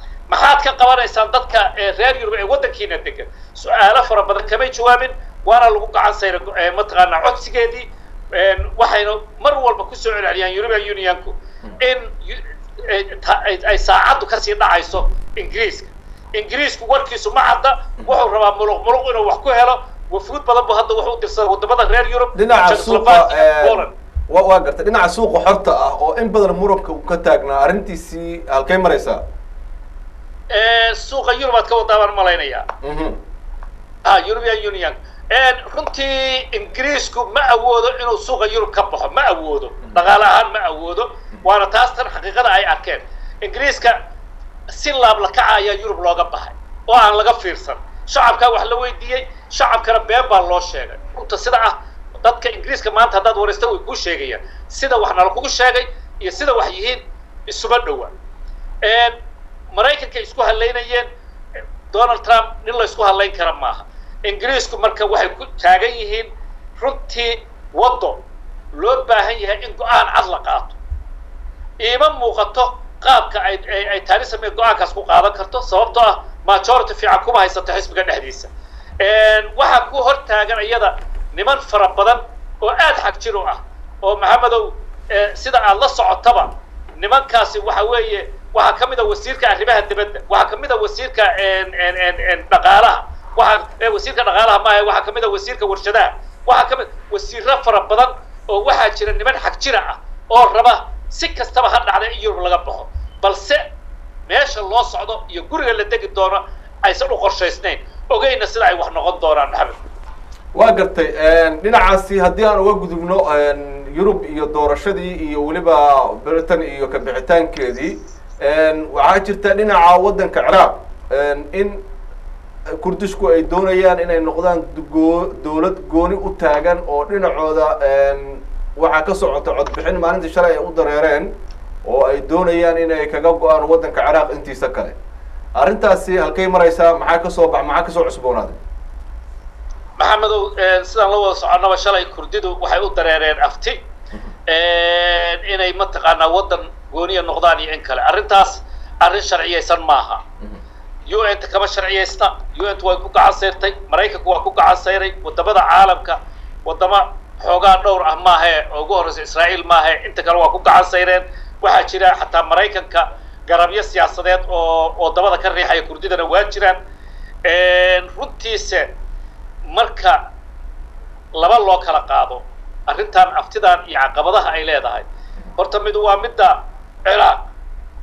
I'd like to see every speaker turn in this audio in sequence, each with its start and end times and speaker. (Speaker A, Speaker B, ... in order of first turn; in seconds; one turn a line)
Speaker A: 0.3-23.9
Speaker B: 22.3-29.2
Speaker A: 30.5-32.7
Speaker B: 32.8-33.2
Speaker A: 34.0-44.0
Speaker A: 44.7-58.1
Speaker A: 58.8-59.1
Speaker A: 59.7-61.1
Speaker A: 61.9-68.2
Speaker A: 68.7-70.8
Speaker A: 71.8-103.6
Speaker A: 104.3-109.8
Speaker B: 110.5-121.8
Speaker B: 122.8-131.3
Speaker B: 131.8-134.9
Speaker B: 135.6-138.6
Speaker A: 140.0-143.8
Speaker A: 144.5-150.2
Speaker A: 151.1-166.8
Speaker A: 167.4-168.9
Speaker A: 169.7-170.2
Speaker A: 171.4-175.0
Speaker A: 175.6-177.5